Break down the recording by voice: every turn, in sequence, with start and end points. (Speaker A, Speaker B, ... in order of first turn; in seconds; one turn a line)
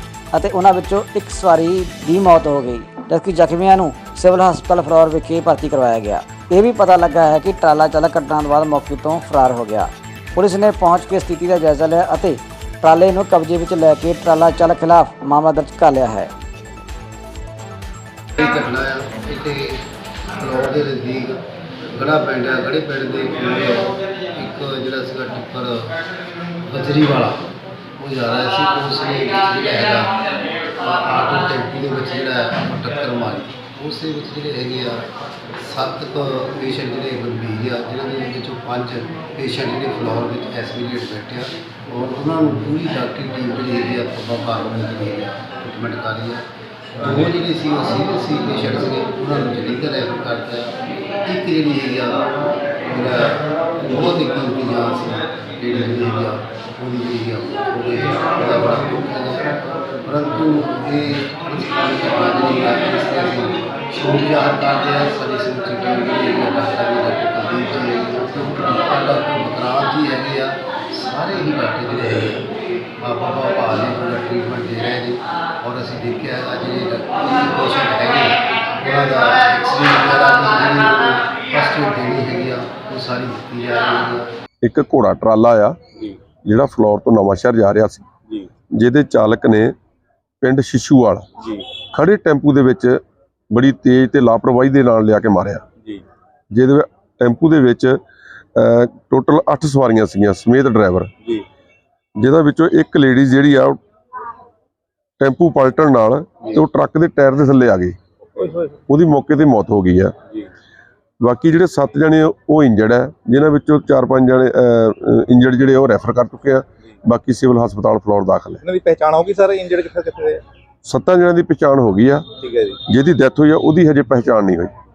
Speaker A: 0.3-16.3
Speaker B: 18.4-19.8
Speaker B: 20.4-21.4
Speaker B: 21.9-25.9
Speaker B: 26.7-27.4
Speaker B: 28.0-30.1
Speaker B: 30.8-35.0
Speaker B: 35.6-46.4
Speaker B: 47.0-50.7
Speaker B: 51.2-52.3
Speaker B: 52.9-72.5
Speaker B: 73.0-84.3
Speaker C: 84.6-85.8
Speaker C: 86.4-88.1
Speaker C: 88.8-89.7
Speaker C: 90.4-91.3
Speaker D: 91.4-91.7
Speaker C: 91.9-93.0
Speaker C: 93.5-95.7
Speaker C: 96.5-98.0
Speaker C: 98.6-101.1
Speaker C: 102.2-103.8
Speaker C: 105.2-108.0
Speaker D: 108.3-108.8
Speaker C: 108.9-110.2
Speaker C: 111.2-118.6
Speaker D: 118.6-120.4
Speaker C: 120.9-122.3
Speaker D: 122.4-122.8
Speaker C: 122.9-124.7